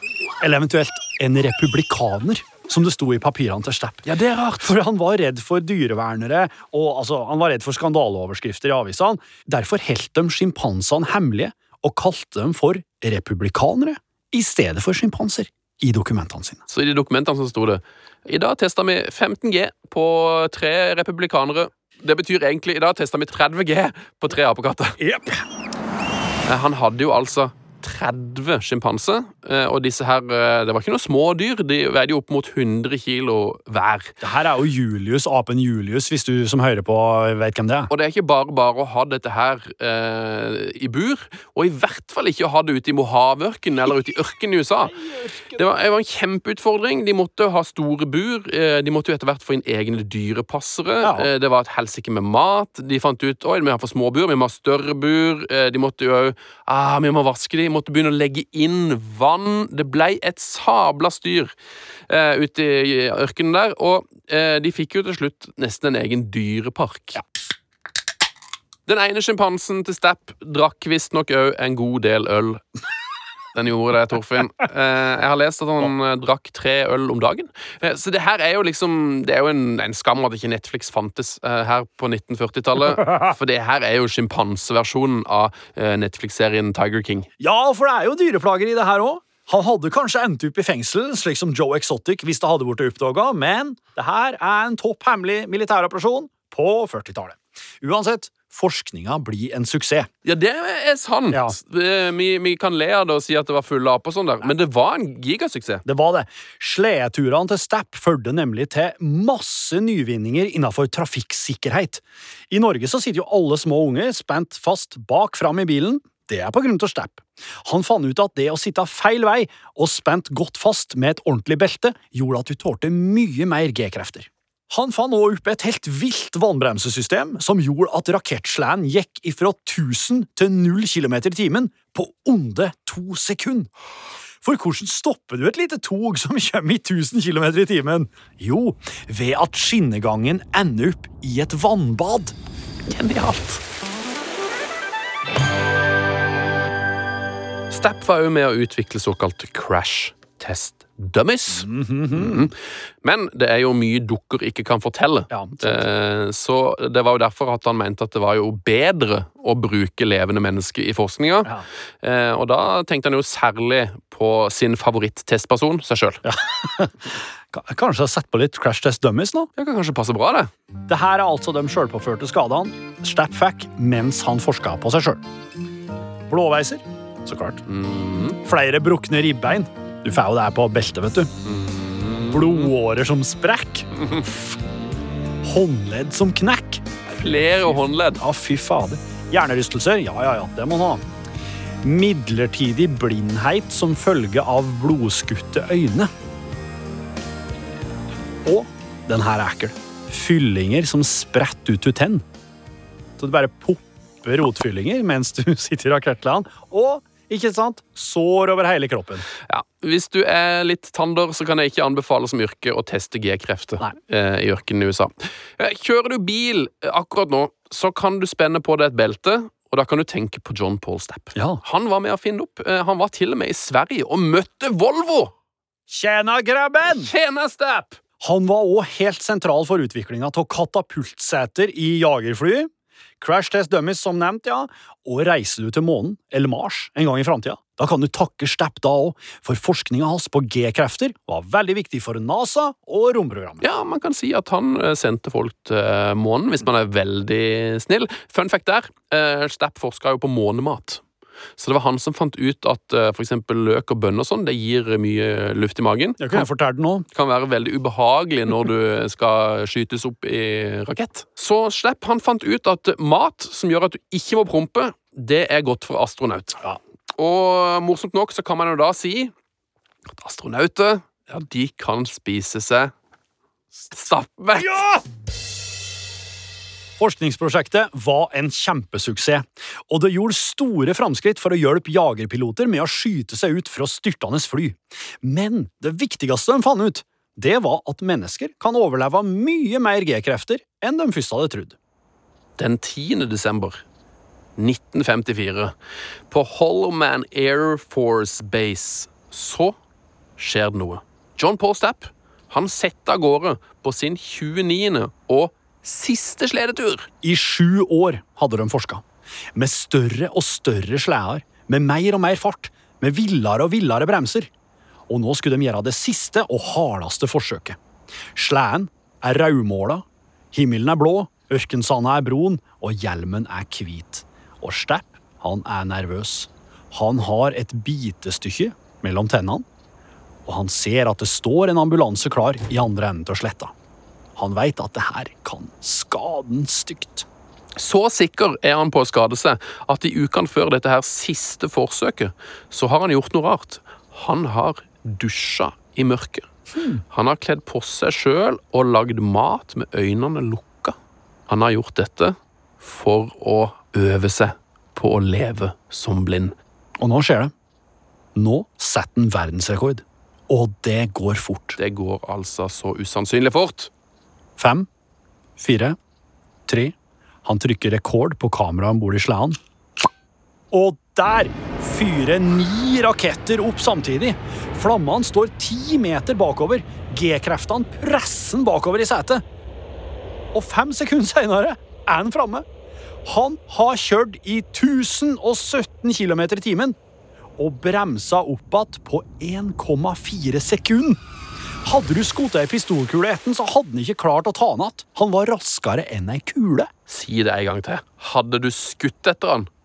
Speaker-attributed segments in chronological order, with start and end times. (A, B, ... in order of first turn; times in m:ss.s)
0:00.4-0:04.1 A
0:04.0-0:04.8 B
0:04.6-0:16.6 A
0:16.7-0:25.0 B
0:25.0-0:25.4 A
0:26.5-0:34.2 B
0:34.2-0:37.9 A
0:37.9-1:01.5 B
0:45.0-0:45.3 A
0:51.0-0:51.3 A
1:02.1-1:07.2 B
1:08.9-1:12.6 B
1:13.5-1:27.3 B
1:23.0-1:23.3 A
1:27.4-1:40.1 A
1:40.2-1:45.8 B
1:41.3-1:41.6 A
1:45.8-2:13.7 A
2:14.4-2:22.4 A
2:22.9-2:23.6 B
2:27.7-2:46.2 B
2:31.6-2:32.5 A
2:35.3-2:35.8 A
2:46.2-2:49.5 A
2:49.6-2:50.5 B
2:50.9-2:55.2 A
2:56.3-2:57.6 A
2:57.7-2:58.4 B
2:58.4-3:01.3 A
3:01.4-3:02.7 B
3:02.3-3:04.3 A
3:05.4-3:11.0 A
3:07.1-3:08.2 B
3:11.8-3:16.1 A
3:18.4-3:22.2 A
3:23.2-3:29.3 A
3:29.5-3:45.3 B
3:41.4-3:41.6 A
3:45.9-3:47.1 A
3:46.8-3:48.0 B
3:48.2-4:03.6 A
4:03.6-4:11.0 B
4:11.6-4:16.5 B
4:16.2-4:17.0 A
4:17.1-4:26.6 B
4:27.2-4:29.3 B
4:30.2-4:32.9 B
4:33.9-4:34.8 B
4:34.6-4:35.0 A
4:37.0-4:51.8 A
4:52.6-4:53.8 B
4:54.6-4:55.7 B
4:56.3-4:59.8 B
5:00.4-5:07.1 B
5:07.2-5:09.0 A
5:09.6-5:14.5 A
5:15.1-5:17.8 A
5:18.4-5:29.7 A
5:30.5-5:33.7 A
5:34.4-5:37.3 A
5:37.8-5:46.5 B
5:46.8-5:47.0 A
5:47.1-5:51.0 B
5:51.5-5:56.6 B
5:57.0-5:57.5 A
5:58.4-6:01.8 A
6:01.8-6:03.9 B
6:04.6-6:04.9 A
6:05.6-6:06.0 A
6:06.7-6:09.6 A
6:10.7-6:19.4 A
6:20.5-6:22.7 A
6:23.2-6:27.0 A
6:27.6-6:31.2 A
6:31.8-6:36.9 A
6:37.1-6:39.7 B